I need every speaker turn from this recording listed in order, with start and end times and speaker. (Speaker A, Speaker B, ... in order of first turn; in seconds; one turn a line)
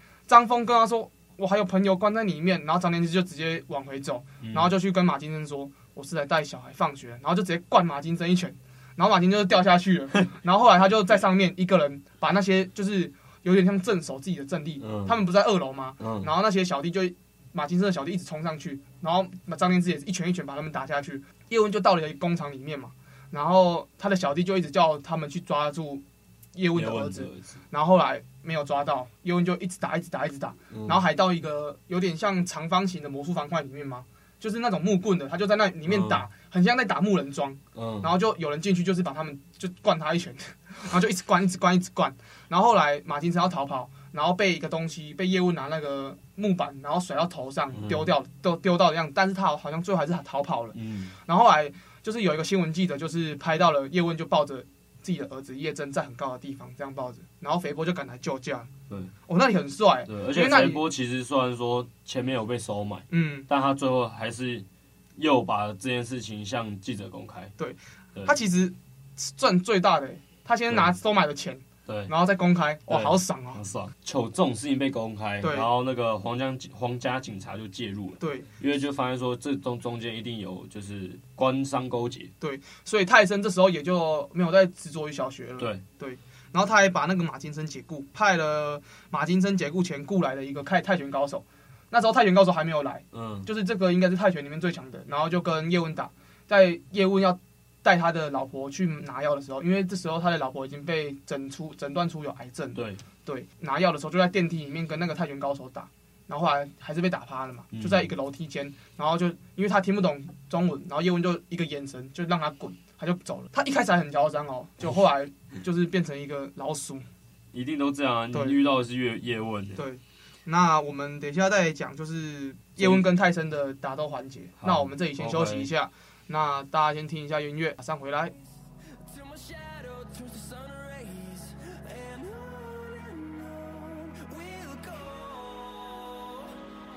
Speaker A: 0.3-26.0
Speaker B: 4.4-4.7
Speaker B: 14.8-15.2
Speaker B: 16.0-16.3
Speaker A: 26.5-58.7
Speaker B: 26.7-27.6
Speaker B: 30.7-31.0
Speaker B: 35.9-36.2
Speaker B: 37.7-38.1
Speaker B: 47.7-48.1
Speaker B: 50.7-51.1
Speaker A: 59.3-60.8
Speaker B: 60.1-64.6
Speaker A: 63.1-63.5
Speaker B: 65.2-67.5
Speaker A: 67.6-73.6
Speaker B: 71.8-72.1
Speaker B: 72.9-82.3
Speaker A: 75.4-75.7
Speaker A: 78.2-78.5
Speaker A: 82.4-117.0
Speaker B: 93.1-93.5
Speaker B: 102.7-103.0
Speaker B: 107.7-108.1
Speaker B: 117.5-119.8
Speaker A: 118.3-118.6
Speaker A: 119.8-128.3
Speaker B: 122.8-123.0
Speaker B: 124.6-125.7
Speaker C: 129.1-136.5